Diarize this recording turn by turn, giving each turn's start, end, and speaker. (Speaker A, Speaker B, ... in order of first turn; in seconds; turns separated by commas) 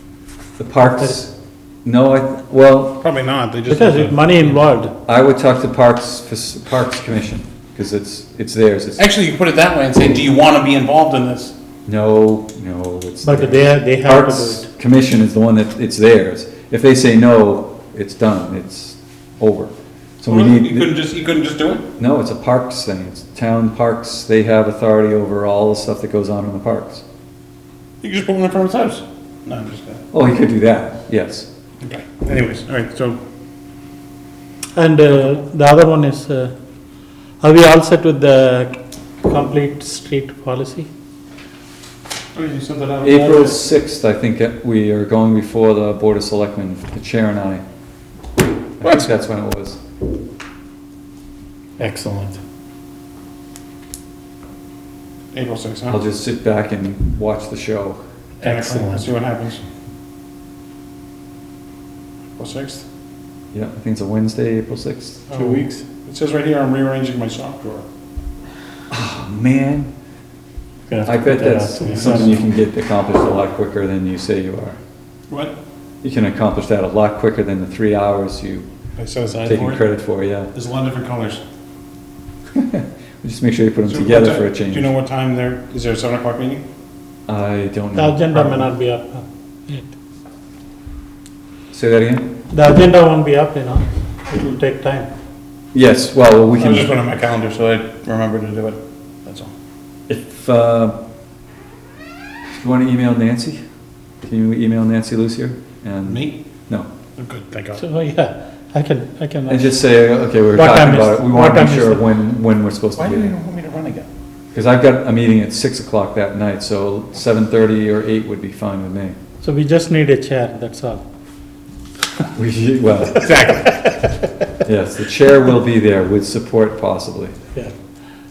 Speaker A: 0.6-1.3, Speaker A: 1.9-3.0, Speaker B: 3.0-4.6, Speaker C: 3.7-4.9, Speaker A: 5.1-9.0, Speaker B: 9.0-11.5, Speaker A: 11.9-20.9, Speaker C: 13.2-14.7, Speaker B: 20.3-21.9, Speaker A: 22.0-27.0, Speaker B: 28.0-30.0, Speaker A: 30.1-31.5, Speaker B: 31.8-33.2, Speaker C: 34.8-36.5, Speaker B: 35.1-35.4, Speaker C: 37.4-40.9, Speaker B: 42.4-43.6, Speaker A: 43.0-47.6, Speaker A: 48.8-49.8, Speaker B: 48.8-49.1, Speaker C: 51.8-52.4, Speaker B: 55.3-56.0, Speaker A: 55.9-58.0, Speaker B: 58.4-59.6, Speaker C: 58.4-59.1, Speaker B: 62.4-62.9, Speaker A: 63.5-65.3, Speaker B: 65.3-67.8, Speaker C: 65.3-65.8, Speaker A: 68.9-69.9, Speaker C: 70.9-72.4, Speaker A: 71.0-74.8, Speaker B: 71.9-72.3, Speaker B: 75.3-75.6, Speaker A: 76.0-78.7, Speaker B: 79.0-79.8, Speaker A: 79.5-80.5, Speaker B: 80.5-81.4, Speaker A: 82.5-84.9, Speaker B: 83.9-86.7, Speaker A: 87.3-88.7, Speaker C: 88.0-89.9, Speaker A: 91.7-92.3, Speaker C: 92.5-95.1, Speaker A: 95.7-96.9, Speaker B: 96.5-99.5, Speaker A: 100.1-101.0, Speaker A: 102.6-103.6, Speaker A: 104.2-106.9, Speaker B: 106.0-106.4, Speaker B: 107.2-107.8, Speaker C: 107.8-109.7, Speaker A: 109.5-113.3, Speaker C: 110.5-112.0, Speaker B: 113.0-114.1, Speaker A: 114.5-119.2, Speaker C: 119.4-121.0, Speaker A: 122.3-123.3, Speaker B: 123.2-123.8, Speaker A: 124.7-127.4